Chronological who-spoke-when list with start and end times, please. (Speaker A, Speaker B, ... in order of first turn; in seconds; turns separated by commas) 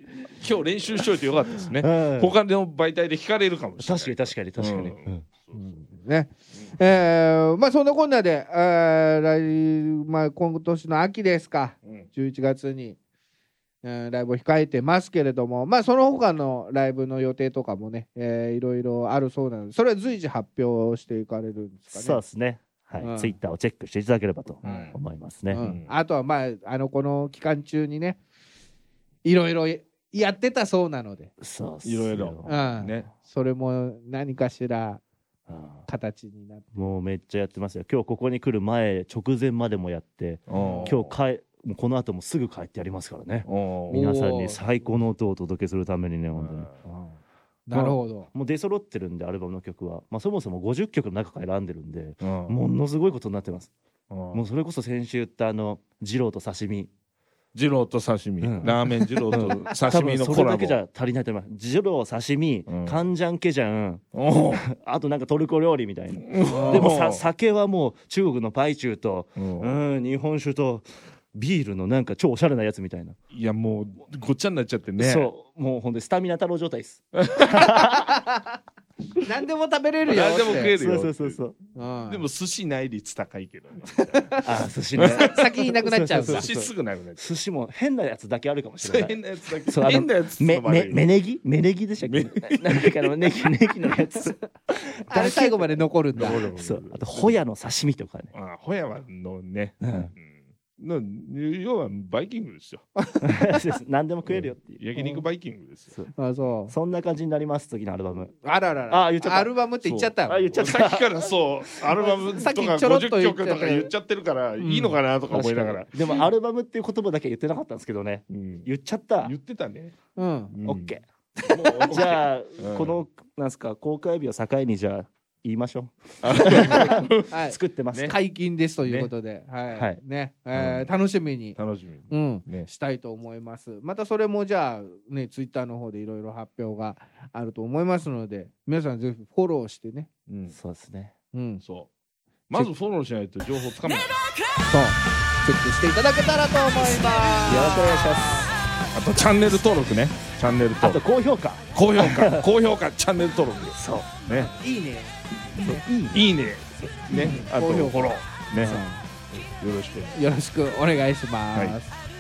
Speaker A: 0.3-5.8, Speaker B: 1.6-2.3, Speaker B: 3.8-5.2, Speaker C: 5.5-13.0, Speaker C: 13.8-22.2, Speaker B: 21.9-25.6, Speaker C: 23.0-23.4, Speaker A: 24.6-25.0, Speaker C: 24.6-24.9, Speaker C: 25.5-28.2, Speaker A: 25.5-25.9, Speaker C: 29.2-31.3, Speaker B: 31.4-32.6, Speaker A: 31.8-33.1, Speaker C: 32.4-35.0, Speaker B: 35.5-35.9, Speaker C: 35.9-36.8, Speaker B: 36.7-46.7, Speaker A: 40.5-41.2, Speaker C: 40.5-40.9, Speaker A: 43.5-44.1, Speaker C: 43.9-44.6, Speaker A: 46.4-46.8, Speaker C: 46.8-48.3, Speaker B: 47.7-53.7, Speaker A: 52.2-52.6, Speaker A: 54.1-54.4, Speaker B: 54.3-56.9, Speaker A: 57.5-60.8, Speaker B: 58.4-73.2, Speaker A: 62.7-63.0, Speaker A: 64.1-64.6, Speaker A: 66.2-67.2, Speaker C: 66.5-66.9, Speaker A: 69.4-69.8, Speaker A: 73.3-75.3, Speaker B: 75.0-78.2, Speaker A: 77.2-77.7, Speaker C: 77.5-78.5, Speaker C: 79.2-80.8, Speaker A: 80.0-81.4, Speaker B: 80.5-81.5, Speaker C: 81.7-82.2, Speaker A: 82.1-84.3, Speaker C: 83.9-84.5, Speaker B: 84.4-98.3, Speaker A: 85.0-85.5, Speaker C: 85.0-86.5, Speaker A: 86.1-87.3, Speaker A: 88.8-91.0, Speaker A: 92.0-93.1, Speaker C: 95.1-96.5, Speaker A: 96.1-97.4, Speaker A: 98.3-102.8, Speaker B: 99.8-100.1, Speaker C: 103.0-103.6, Speaker B: 103.2-104.8, Speaker A: 104.3-105.9, Speaker C: 105.0-105.2, Speaker C: 106.1-106.7, Speaker B: 106.7-108.3, Speaker C: 108.4-110.5, Speaker B: 108.9-109.5, Speaker A: 109.8-116.2, Speaker B: 110.2-111.1, Speaker C: 112.0-113.9, Speaker C: 114.6-115.0, Speaker B: 115.3-119.3, Speaker A: 118.3-118.7, Speaker A: 119.2-120.0, Speaker C: 120.2-120.5, Speaker A: 120.5-120.9, Speaker B: 120.6-121.0, Speaker C: 121.4-121.8, Speaker A: 121.5-123.0, Speaker B: 121.5-128.2, Speaker A: 126.2-127.3, Speaker C: 126.5-131.6, Speaker A: 128.8-129.1, Speaker B: 129.7-130.0, Speaker B: 130.6-130.9, Speaker A: 131.6-132.7, Speaker C: 132.1-140.1, Speaker A: 140.3-140.6, Speaker B: 140.5-141.1, Speaker C: 141.3-141.6, Speaker A: 141.6-141.9, Speaker A: 142.5-144.2, Speaker C: 144.7-148.4, Speaker B: 147.4-148.5, Speaker A: 148.9-151.0, Speaker B: 150.8-152.5, Speaker A: 151.7-154.5, Speaker B: 153.7-154.1, Speaker C: 154.3-155.8, Speaker B: 155.6-156.3, Speaker A: 156.1-160.2, Speaker C: 157.1-159.0, Speaker C: 160.1-161.9